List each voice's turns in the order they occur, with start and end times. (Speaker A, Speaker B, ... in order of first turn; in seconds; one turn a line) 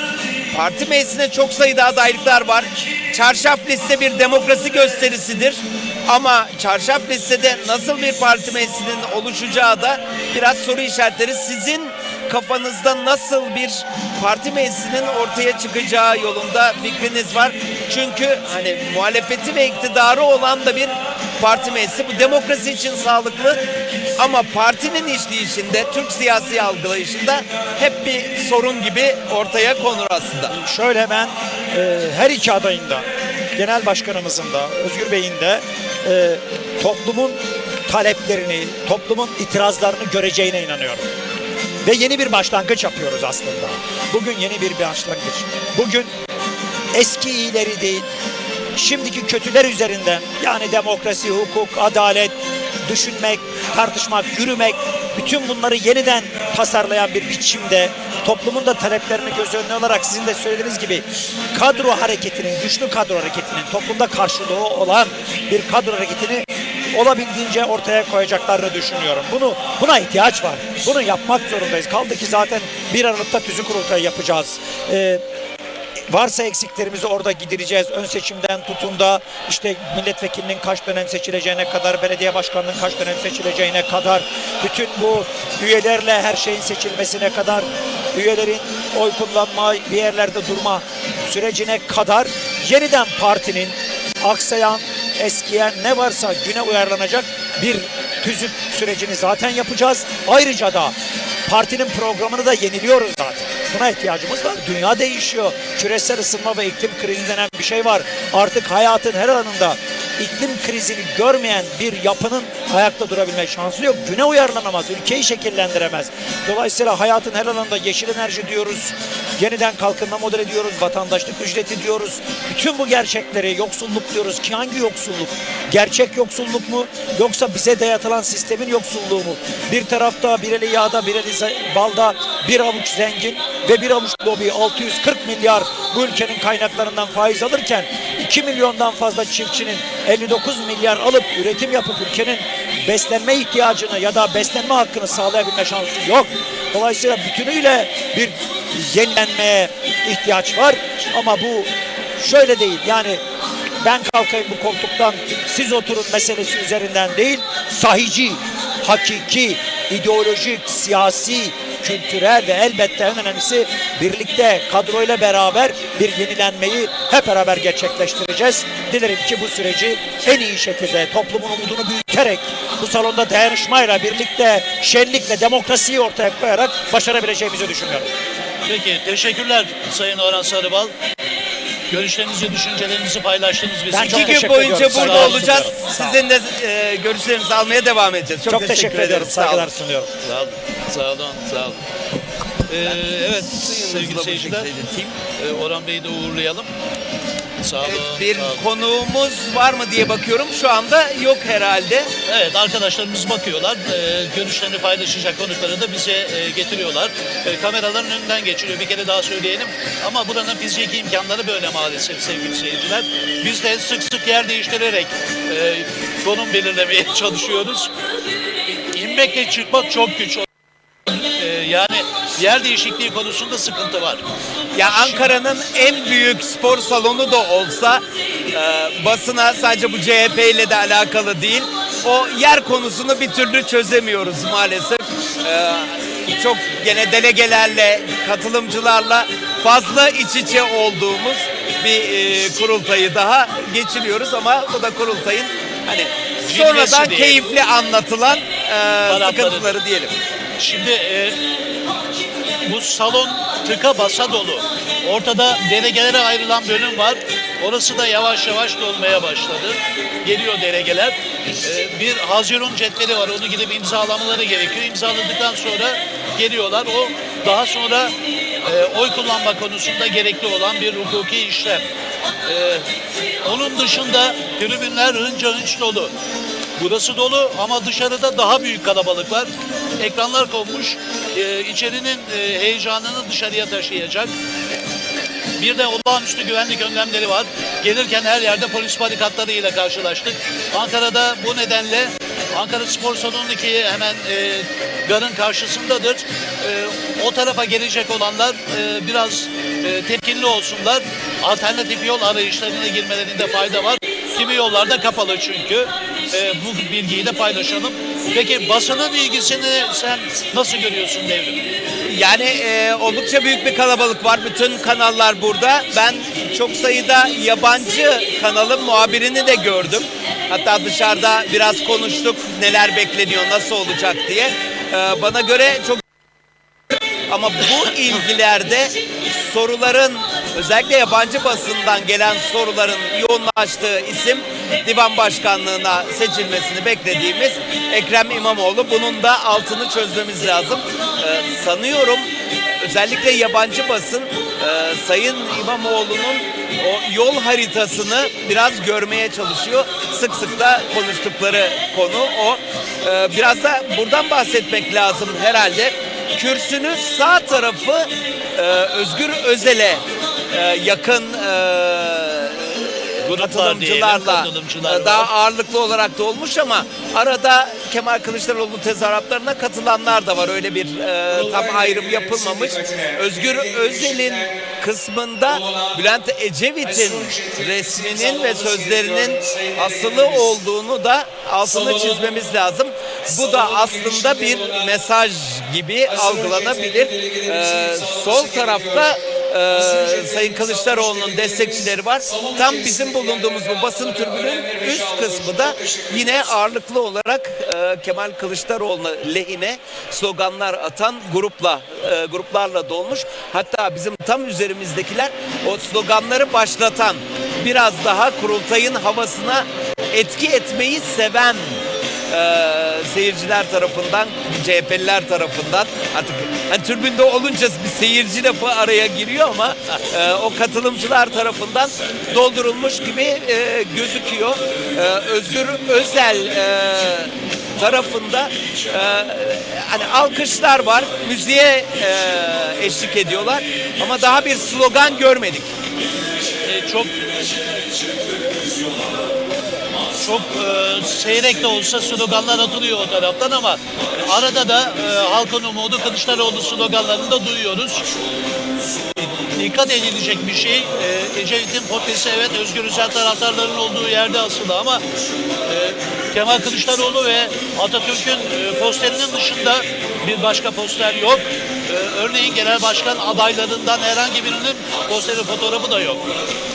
Speaker A: 0.5-23.6
Speaker A: 24.2-30.5
Speaker B: 30.5-41.1
Speaker B: 41.8-46.1
Speaker B: 46.9-48.0
Speaker B: 48.8-52.4
Speaker B: 52.9-75.2
Speaker B: 76.1-100.9
Speaker B: 101.5-153.2
Speaker B: 153.8-178.1
Speaker C: 178.7-180.9
Speaker C: 181.9-185.6
Speaker B: 183.9-186.2
Speaker A: 184.0-189.7
Speaker B: 188.4-190.1
Speaker C: 190.2-191.8
Speaker C: 192.7-194.7
Speaker A: 193.5-195.2
Speaker C: 195.4-196.7
Speaker C: 197.6-198.6
Speaker A: 197.8-202.1
Speaker C: 202.2-217.9
Speaker C: 218.8-220.4
Speaker C: 221.2-224.2
Speaker A: 224.7-250.1
Speaker C: 224.9-225.3
Speaker C: 246.4-247.4
Speaker C: 249.1-249.7
Speaker C: 250.6-251.4
Speaker C: 252.6-271.9
Speaker C: 272.4-272.9
Speaker C: 273.4-276.1
Speaker C: 276.8-284.3
Speaker C: 285.6-311.7
Speaker A: 312.1-326.0
Speaker A: 327.3-342.3
Speaker A: 342.8-411.8
Speaker C: 363.2-365.3
Speaker A: 412.3-435.7
Speaker C: 436.6-437.1
Speaker C: 440.1-448.1
Speaker C: 449.2-455.0
Speaker C: 455.7-466.3